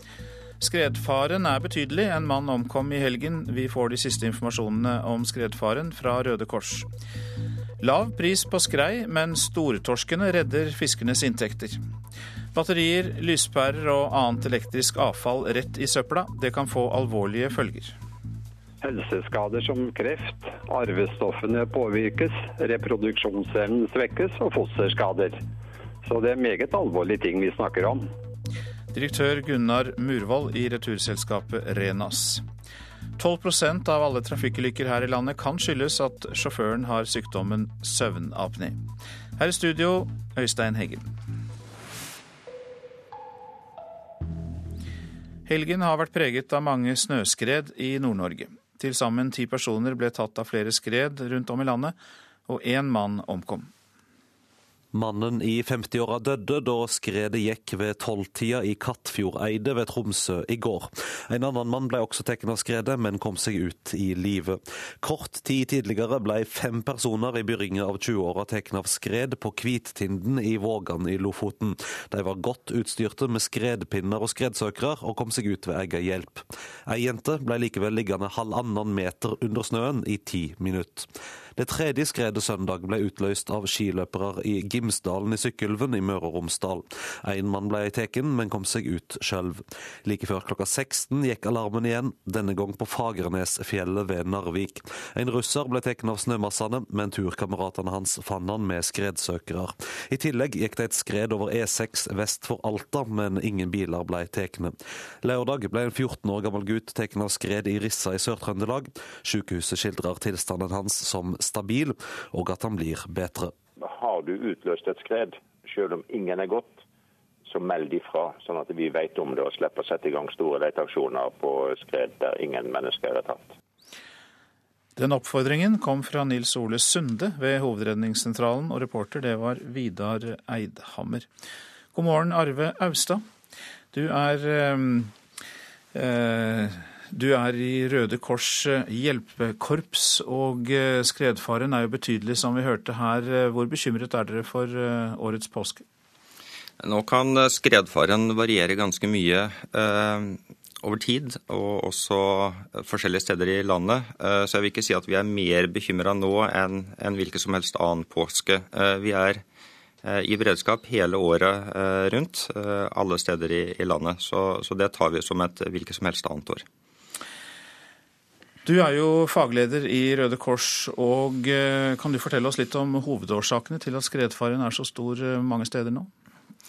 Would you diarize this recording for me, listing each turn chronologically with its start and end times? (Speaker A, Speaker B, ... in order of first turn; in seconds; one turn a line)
Speaker A: 0.6-6.9
Speaker A: 7.8-11.8
Speaker A: 12.5-18.0
Speaker B: 18.8-25.4
Speaker B: 26.0-28.1
Speaker A: 28.9-32.4
Speaker A: 33.2-38.8
Speaker A: 39.4-41.1
Speaker A: 45.5-52.0
Speaker A: 52.5-53.7
Speaker C: 54.9-113.5
Speaker D: 113.8-116.8
Speaker D: 117.5-123.5
Speaker A: 125.0-131.3
Speaker A: 131.9-133.2
Speaker A: 133.9-135.1
Speaker A: 135.9-145.8
Speaker E: 146.8-159.4
Speaker E: 160.0-166.7
Speaker A: 168.7-176.1